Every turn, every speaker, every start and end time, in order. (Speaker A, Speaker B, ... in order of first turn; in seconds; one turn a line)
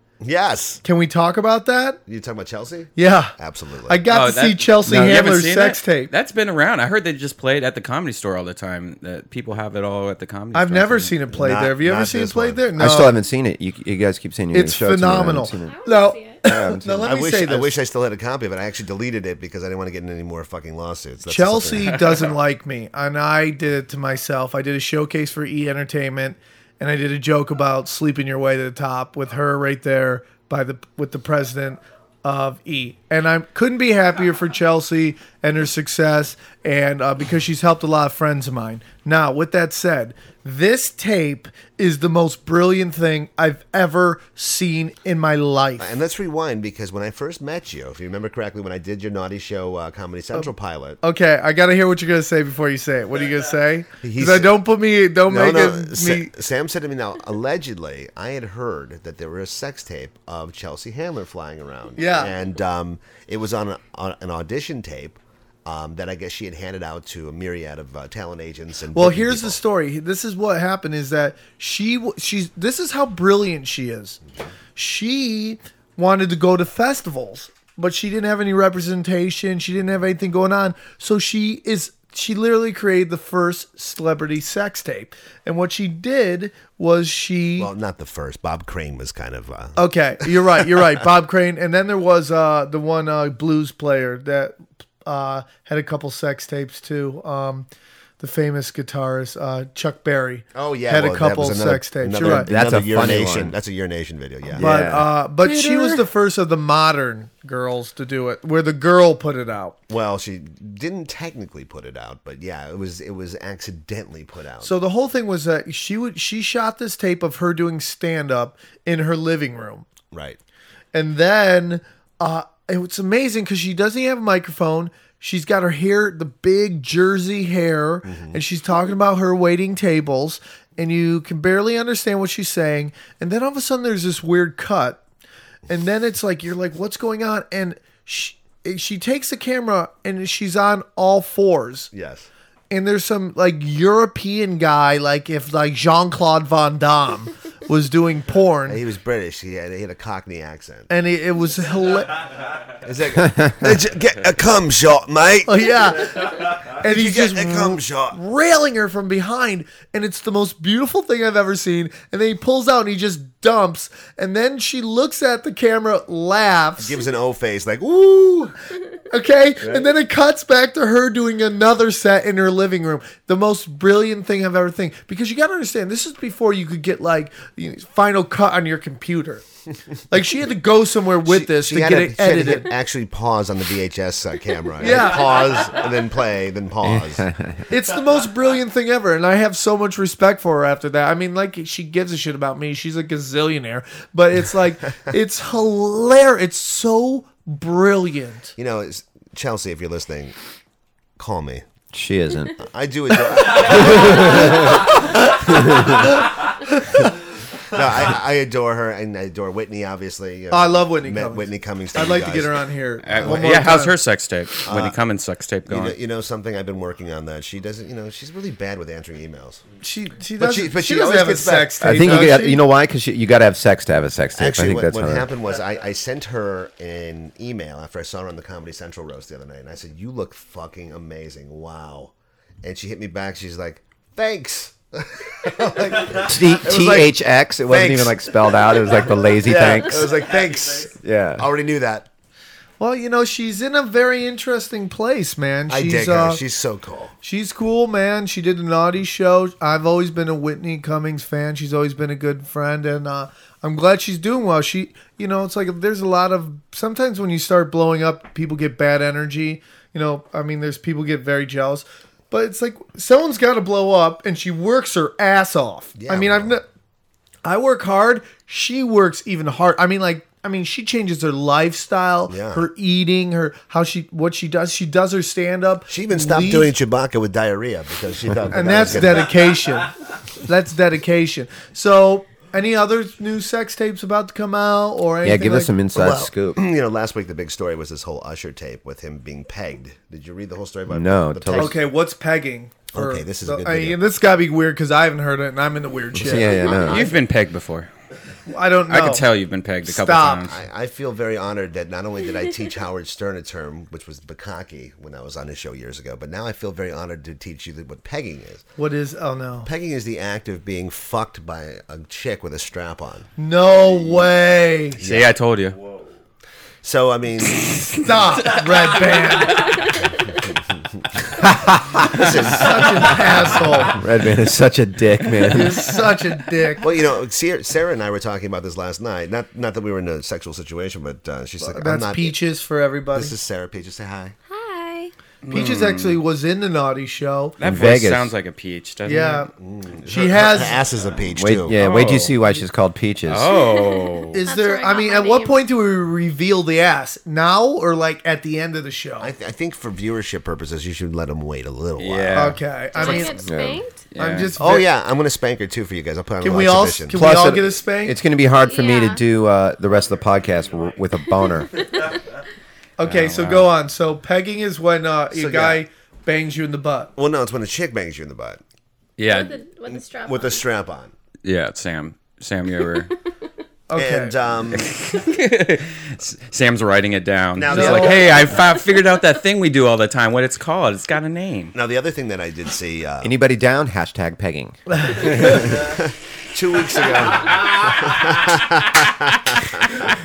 Speaker A: 0.2-0.8
Speaker B: 0.8-2.0
Speaker A: 2.1-4.1
Speaker B: 3.0-3.3
Speaker B: 3.9-6.1
Speaker C: 4.1-11.2
Speaker D: 4.8-5.2
Speaker B: 10.5-13.1
Speaker A: 11.3-12.6
Speaker D: 12.8-15.7
Speaker B: 14.5-17.7
Speaker E: 15.6-16.4
Speaker D: 16.4-17.2
Speaker A: 16.5-22.3
Speaker B: 21.2-45.9
Speaker C: 21.8-22.2
Speaker A: 45.8-51.0
Speaker B: 51.0-56.3
Speaker A: 54.0-54.5
Speaker A: 55.3-69.6
Speaker B: 62.0-62.3
Speaker B: 68.9-74.2
Speaker B: 74.8-87.7
Speaker A: 87.6-90.9
Speaker B: 89.8-97.7
Speaker B: 98.2-102.5
Speaker A: 100.5-104.9
Speaker D: 102.2-103.5
Speaker D: 104.5-106.0
Speaker B: 104.6-109.8
Speaker A: 109.9-114.7
Speaker B: 114.6-119.8
Speaker A: 120.1-120.4
Speaker B: 120.9-135.0
Speaker A: 128.0-128.4
Speaker B: 135.7-141.9
Speaker A: 141.9-142.3
Speaker B: 142.7-148.8
Speaker A: 148.7-150.9
Speaker B: 150.9-152.2
Speaker A: 152.8-155.7
Speaker B: 155.5-167.0
Speaker A: 156.7-158.2
Speaker A: 166.8-168.5
Speaker B: 169.1-179.4
Speaker B: 180.1-182.7
Speaker A: 181.2-187.2
Speaker B: 184.8-185.5
Speaker D: 186.8-187.7
Speaker B: 187.7-198.5
Speaker A: 198.6-200.3
Speaker A: 201.2-201.6
Speaker D: 201.9-202.5
Speaker A: 202.6-205.3
Speaker D: 203.8-204.5
Speaker A: 207.7-213.4
Speaker B: 210.5-213.9
Speaker C: 213.0-215.9
Speaker A: 214.6-215.0
Speaker A: 215.7-219.6
Speaker B: 219.8-222.6
Speaker A: 220.4-222.4
Speaker D: 221.8-225.3
Speaker A: 224.4-232.1
Speaker A: 232.6-237.2
Speaker D: 236.1-240.2
Speaker A: 237.7-238.3
Speaker A: 239.4-242.1
Speaker D: 241.0-241.4
Speaker B: 242.8-246.4
Speaker A: 245.7-247.1
Speaker B: 247.2-266.6
Speaker A: 265.9-266.6
Speaker B: 267.4-276.7
Speaker A: 272.3-272.6
Speaker A: 275.9-279.3
Speaker B: 278.5-285.7
Speaker D: 285.2-286.6
Speaker A: 285.9-291.8
Speaker D: 290.9-291.7
Speaker B: 291.5-297.1
Speaker A: 292.9-294.0
Speaker D: 296.1-297.1
Speaker C: 296.8-297.9
Speaker B: 298.5-299.3
Speaker C: 298.9-300.6
Speaker B: 299.8-300.5
Speaker A: 300.5-308.6
Speaker B: 308.8-309.7
Speaker A: 309.6-313.3
Speaker B: 313.4-315.0
Speaker A: 315.0-315.3
Speaker C: 315.0-315.8
Speaker A: 316.8-317.6
Speaker B: 317.8-319.9
Speaker A: 321.1-323.5
Speaker B: 322.2-324.0
Speaker D: 323.9-325.9
Speaker B: 325.5-326.9
Speaker A: 326.8-332.3
Speaker B: 331.6-333.3
Speaker A: 333.1-334.3
Speaker E: 334.5-335.1
Speaker C: 335.4-336.2
Speaker B: 335.5-337.6
Speaker C: 337.6-339.5
Speaker D: 337.6-338.3
Speaker B: 339.0-339.5
Speaker A: 339.6-341.8
Speaker B: 340.1-340.8
Speaker D: 341.4-343.5
Speaker C: 341.8-342.4
Speaker C: 343.3-344.4
Speaker E: 343.6-345.6
Speaker B: 344.4-349.3
Speaker A: 349.2-353.2
Speaker C: 352.0-353.4
Speaker B: 352.3-353.4
Speaker E: 352.9-354.1
Speaker D: 353.4-353.8
Speaker C: 354.1-354.6
Speaker B: 354.2-354.9
Speaker A: 354.6-357.2
Speaker B: 356.4-358.2
Speaker D: 357.1-361.7
Speaker E: 358.6-359.2
Speaker B: 363.0-367.1
Speaker C: 363.0-363.7
Speaker A: 365.3-365.8
Speaker A: 367.1-368.6
Speaker C: 369.2-369.6
Speaker E: 369.2-370.6
Speaker A: 369.9-371.1
Speaker C: 371.4-373.1
Speaker B: 373.9-374.3
Speaker A: 373.9-374.9
Speaker C: 374.8-381.7
Speaker A: 377.6-378.6
Speaker B: 377.7-378.3
Speaker A: 381.7-383.4
Speaker D: 383.2-385.6
Speaker B: 385.0-385.7
Speaker A: 385.7-389.9